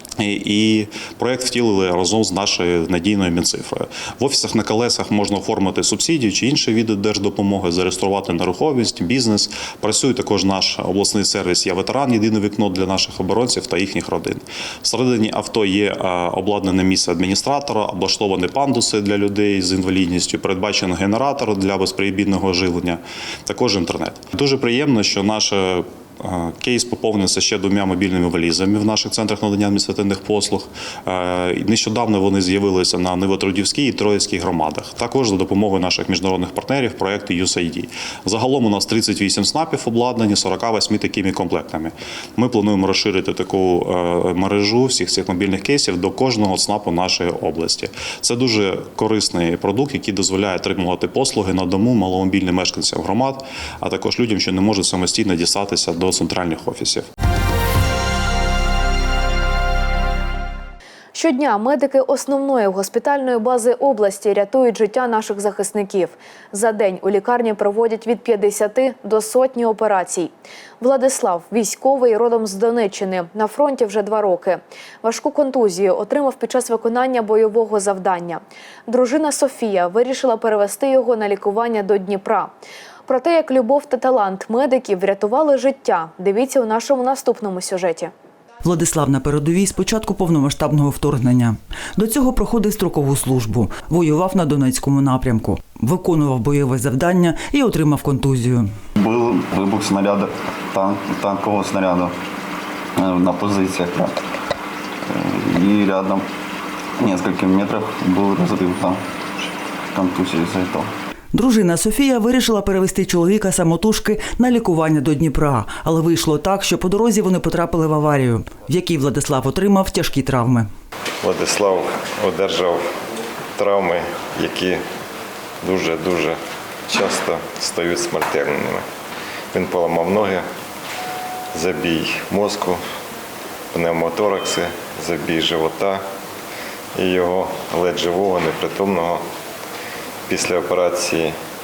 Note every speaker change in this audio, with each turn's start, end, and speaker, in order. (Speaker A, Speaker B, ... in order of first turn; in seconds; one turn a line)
Speaker A: 0.2-57.1
Speaker B: 61.1-82.5
Speaker B: 83.1-88.1
Speaker C: 88.6-98.7
Speaker D: 99.0-102.1
Speaker D: 103.0-104.1
Speaker D: 105.1-106.2
Speaker D: 107.0-110.9
Speaker C: 111.3-120.7
Speaker E: 121.2-123.0
Speaker E: 123.6-124.8
Speaker E: 125.6-128.9
Speaker E: 129.5-130.5
Speaker E: 131.5-132.8
Speaker E: 133.7-136.0
Speaker E: 136.9-139.2
Speaker E: 140.3-141.4